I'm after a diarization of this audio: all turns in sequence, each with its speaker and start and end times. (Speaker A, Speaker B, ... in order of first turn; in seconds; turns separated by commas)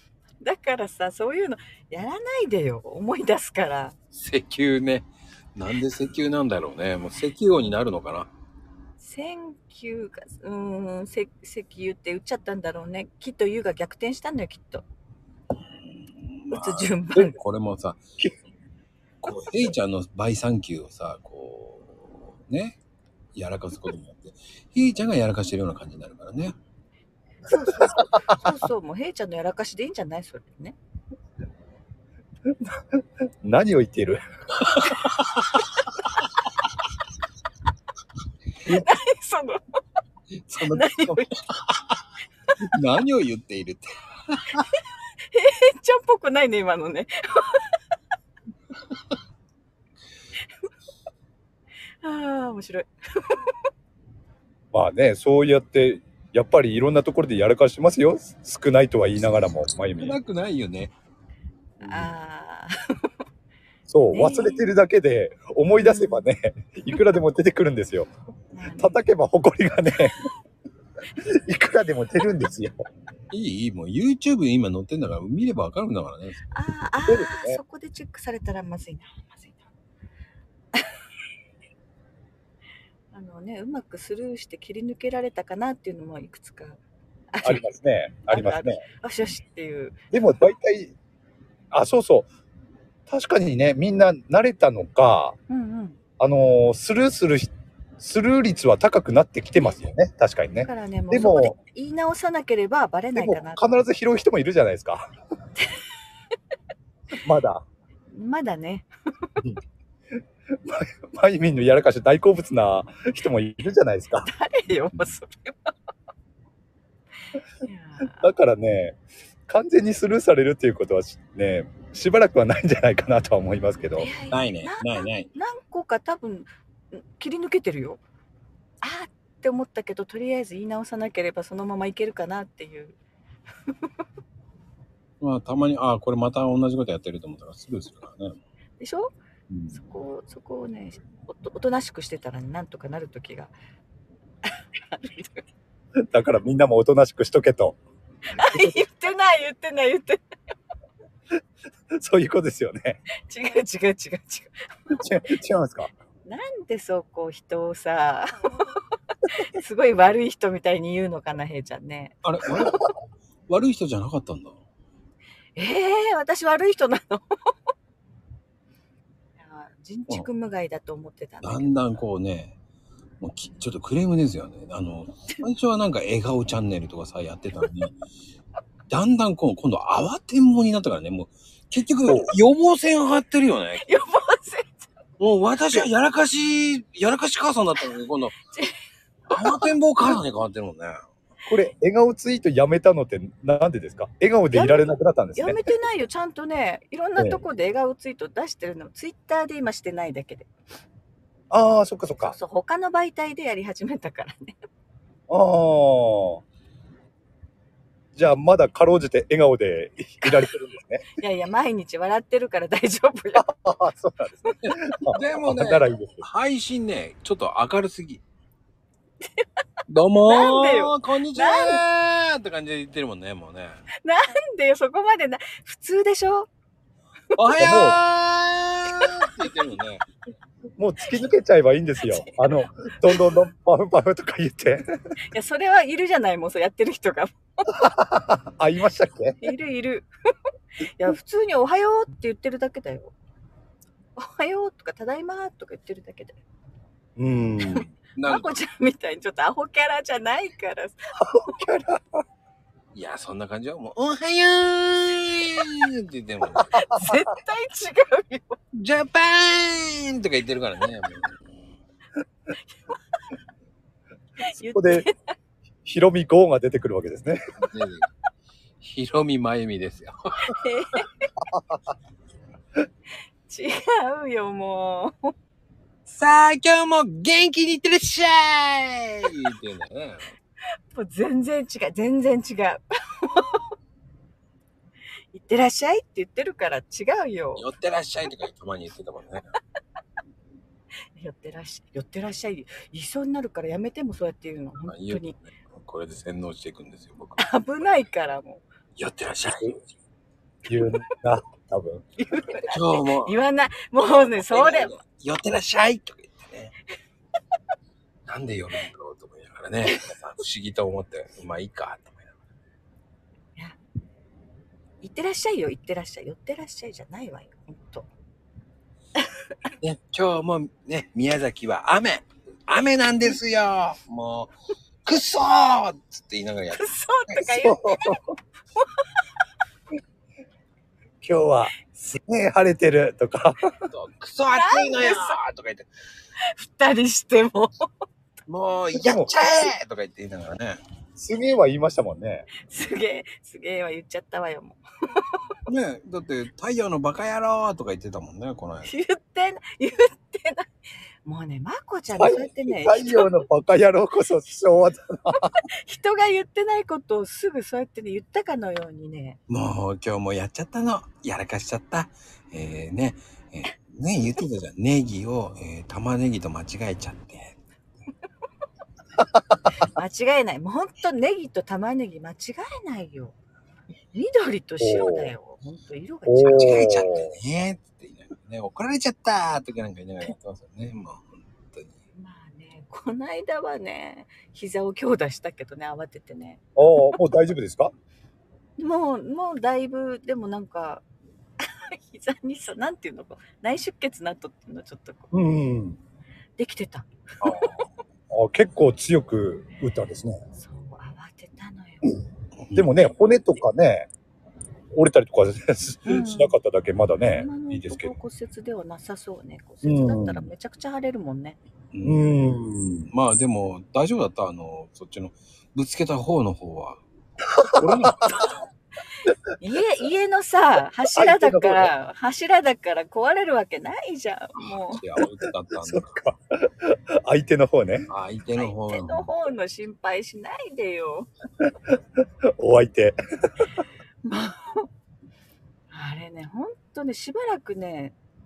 Speaker A: 0.4-4.0, Speaker B: 4.1-8.3, Speaker A: 9.0-14.8, Speaker B: 16.2-18.0, Speaker A: 16.5-17.4, Speaker B: 19.2-22.8, Speaker B: 23.3-26.5, Speaker A: 27.4-30.8, Speaker C: 27.9-28.5, Speaker C: 33.4-34.2, Speaker B: 34.6-35.5, Speaker A: 38.6-39.6, Speaker B: 40.5-41.1, Speaker A: 40.6-41.3, Speaker B: 42.7-44.6, Speaker A: 45.3-47.7, Speaker A: 52.0-53.6, Speaker C: 54.7-60.2, Speaker B: 60.0-60.9, Speaker A: 61.8-63.0, Speaker C: 63.9-68.1, Speaker A: 64.1-64.7, Speaker A: 65.8-66.3, Speaker A: 68.5-69.0, Speaker C: 68.8-70.2, Speaker C: 71.5-72.8, Speaker B: 73.3-76.4, Speaker A: 76.5-79.6, Speaker C: 77.1-77.6, Speaker A: 83.1-86.8, Speaker A: 87.3-87.6, Speaker C: 87.4-88.8, Speaker A: 88.3-90.0, Speaker C: 90.1-90.9, Speaker C: 91.7-92.3, Speaker C: 93.1-95.3, Speaker A: 95.5-96.0, Speaker C: 96.2-101.5, Speaker A: 100.5-103.8, Speaker C: 103.2-105.1, Speaker C: 107.2-107.6, Speaker A: 108.1-108.9, Speaker C: 110.6-114.3, Speaker A: 114.2-115.7, Speaker A: 117.6-118.3, Speaker C: 118.2-119.0, Speaker C: 119.5-124.1, Speaker A: 124.0-128.0, Speaker B: 124.3-125.3, Speaker A: 128.8-132.9, Speaker B: 135.2-138.4, Speaker A: 138.8-139.2, Speaker C: 139.5-139.7, Speaker A: 139.7-143.5, Speaker A: 144.4-145.4, Speaker C: 146.1-147.8, Speaker A: 148.3-150.2, Speaker C: 148.4-148.8, Speaker C: 151.9-153.0, Speaker A: 153.2-155.0, Speaker C: 155.0-155.9, Speaker A: 156.2-158.8, Speaker A: 159.3-162.1, Speaker B: 162.2-162.9, Speaker B: 163.5-164.6, Speaker A: 165.6-167.3, Speaker A: 169.4-171.9, Speaker B: 171.4-172.5, Speaker B: 173.2-178.0, Speaker B: 178.9-184.0, Speaker C: 182.1-182.3, Speaker A: 183.8-184.8, Speaker B: 185.2-188.3, Speaker A: 188.5-188.8, Speaker B: 189.3-191.0, Speaker A: 189.3-189.7, Speaker C: 191.5-195.6, Speaker A: 194.5-200.5, Speaker C: 201.5-202.3, Speaker A: 202.2-204.6, Speaker C: 205.3-206.4, Speaker C: 208.2-211.1, Speaker A: 211.2-213.5, Speaker C: 213.3-216.2, Speaker B: 214.6-218.2, Speaker B: 219.9-223.8, Speaker A: 220.2-221.8, Speaker A: 224.0-226.5, Speaker B: 227.3-230.0, Speaker C: 227.6-228.0, Speaker C: 230.8-234.9, Speaker A: 232.0-233.3, Speaker A: 235.3-237.7, Speaker C: 237.8-239.5, Speaker A: 239.4-240.1, Speaker A: 240.9-243.1, Speaker A: 244.2-246.4, Speaker C: 247.2-247.8, Speaker A: 247.7-251.6, Speaker B: 248.1-248.6, Speaker C: 251.2-252.0, Speaker B: 252.9-256.7, Speaker C: 256.6-257.1, Speaker A: 256.8-258.6, Speaker B: 258.8-261.3, Speaker A: 264.4-265.2, Speaker C: 264.7-265.0, Speaker C: 265.8-267.4, Speaker B: 267.6-268.1, Speaker B: 268.8-270.6, Speaker A: 270.5-271.3, Speaker C: 271.5-271.8, Speaker A: 273.5-275.3, Speaker B: 276.1-280.3, Speaker A: 280.9-283.7, Speaker A: 285.3-287.6, Speaker B: 287.6-289.5, Speaker A: 291.1-295.3, Speaker B: 294.8-297.5, Speaker A: 297.4-298.6, Speaker B: 298.9-299.9, Speaker C: 300.6-302.0, Speaker A: 302.2-304.9, Speaker B: 302.7-303.4, Speaker B: 304.0-306.7, Speaker B: 308.3-312.3, Speaker A: 315.0-318.1, Speaker A: 319.2-319.7, Speaker B: 319.8-324.5, Speaker B: 325.0-327.6, Speaker A: 326.7-328.2, Speaker C: 327.5-328.3, Speaker A: 328.8-329.1, Speaker C: 331.2-333.7, Speaker B: 333.9-335.9, Speaker A: 334.5-335.4, Speaker A: 336.5-337.9, Speaker B: 338.5-340.8, Speaker C: 338.9-339.7, Speaker C: 341.2-342.5, Speaker A: 342.6-345.4, Speaker B: 345.7-348.9, Speaker A: 348.8-350.7, Speaker A: 351.2-353.3, Speaker C: 352.1-355.6, Speaker A: 355.6-359.4, Speaker B: 359.5-367.6, Speaker A: 369.8-373.4, Speaker A: 374.1-376.8, Speaker C: 374.8-375.3, Speaker C: 376.2-377.3, Speaker B: 376.5-382.0, Speaker A: 382.1-386.6, Speaker C: 386.8-387.9, Speaker A: 388.8-391.0, Speaker A: 391.6-395.3, Speaker C: 395.3-396.0, Speaker A: 396.6-397.8, Speaker B: 397.4-397.9, Speaker C: 398.3-400.4, Speaker A: 400.5-402.1, Speaker B: 402.6-402.9, Speaker C: 402.7-404.1, Speaker C: 404.9-408.1, Speaker A: 406.0-406.6, Speaker A: 407.3-411.6, Speaker C: 409.8-410.5, Speaker B: 411.9-412.3, Speaker C: 412.0-413.1, Speaker B: 413.1-417.0, Speaker C: 417.6-418.2, Speaker B: 417.8-418.4, Speaker A: 419.6-425.0, Speaker C: 421.1-421.9, Speaker B: 424.6-426.2, Speaker C: 425.8-428.1, Speaker B: 428.1-429.3, Speaker A: 428.6-431.3, Speaker C: 432.6-433.2, Speaker A: 434.2-434.9, Speaker A: 435.9-438.1